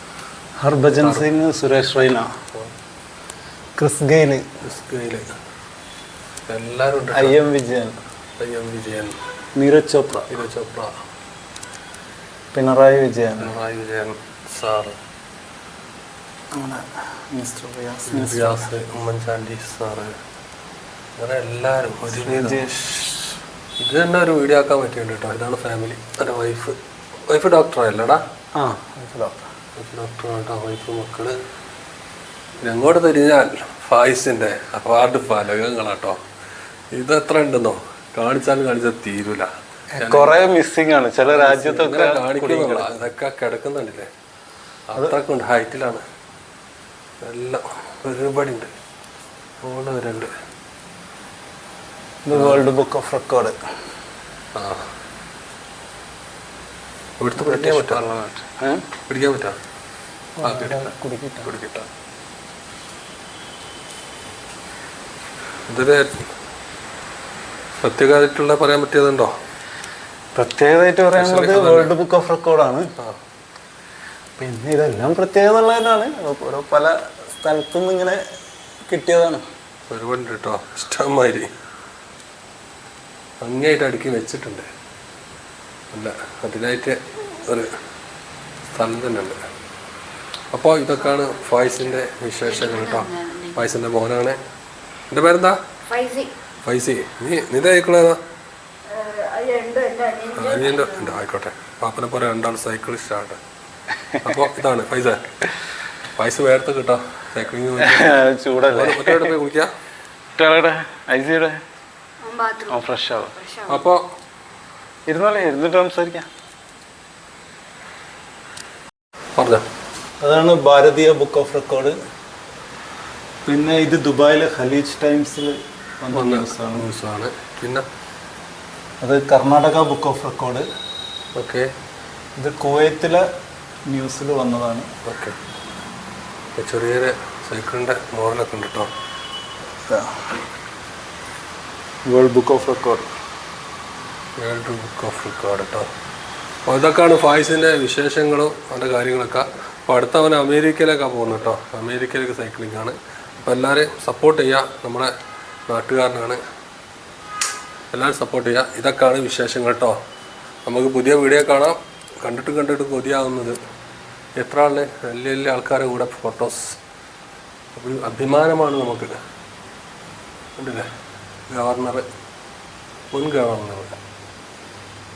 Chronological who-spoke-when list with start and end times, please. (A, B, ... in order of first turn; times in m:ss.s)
0:00.6-0:02.3 A
0:01.0-0:01.3 B
0:03.8-0:04.4 A
0:04.6-0:05.3 B
0:06.5-0:07.4 B
0:07.1-0:08.0 A
0:08.4-0:09.2 B
0:09.6-0:10.3 A
0:10.3-0:10.9 B
0:12.5-0:13.5 A
0:13.4-0:15.0 B
0:16.6-0:18.7 A
0:18.1-0:20.2 B
0:21.2-0:22.7 B
0:22.1-0:23.2 A
0:23.8-0:26.8 B
0:27.3-0:28.2 B
0:28.6-0:29.5 A
0:29.8-0:31.4 B
0:32.6-0:36.2 B
0:36.9-0:40.3 B
0:39.9-0:43.0 A
0:41.3-0:44.1 B
0:44.9-0:46.0 B
0:47.2-0:48.7 B
0:49.6-0:50.3 B
0:52.2-0:53.6 A
0:52.3-0:52.7 B
0:54.6-0:54.9 B
0:57.2-0:58.0 B
0:57.4-0:58.8 A
0:59.1-0:59.6 B
1:00.4-1:01.5 A
1:00.4-1:00.9 B
1:01.4-1:01.9 B
1:05.7-1:06.2 B
1:07.8-1:09.3 B
1:10.4-1:12.9 A
1:11.2-1:11.9 B
1:14.4-1:18.2 A
1:18.9-1:19.4 A
1:19.9-1:21.5 B
1:23.4-1:24.7 B
1:25.9-1:27.7 B
1:28.7-1:29.4 B
1:30.5-1:34.4 B
1:32.5-1:33.8 C
1:35.1-1:35.6 B
1:35.9-1:36.3 C
1:36.6-1:38.2 B
1:38.9-1:41.2 C
1:40.4-1:43.4 B
1:44.2-1:45.2 B
1:46.2-1:49.7 B
1:47.8-1:49.3 A
1:50.4-1:51.6 A
1:52.2-1:52.8 C
1:52.7-1:53.4 A
1:53.4-1:53.9 C
1:53.7-1:54.0 B
1:55.1-1:56.3 A
1:59.4-1:59.7 B
2:00.2-2:02.0 A
2:03.5-2:06.9 A
2:06.1-2:07.9 B
2:09.0-2:10.7 A
2:11.3-2:11.7 B
2:12.4-2:13.2 A
2:13.9-2:14.9 A
2:15.0-2:15.4 B
2:16.6-2:18.9 B
2:19.9-2:20.3 A
2:22.1-2:23.1 A
2:24.4-2:25.9 B
2:26.7-2:35.1 B
2:35.7-2:36.4 B
2:37.9-2:40.0 B
2:40.7-2:43.6 B
2:44.4-2:46.8 B
2:47.8-2:49.1 B
2:50.6-2:50.9 B
2:51.5-2:52.1 B
2:53.1-2:54.0 B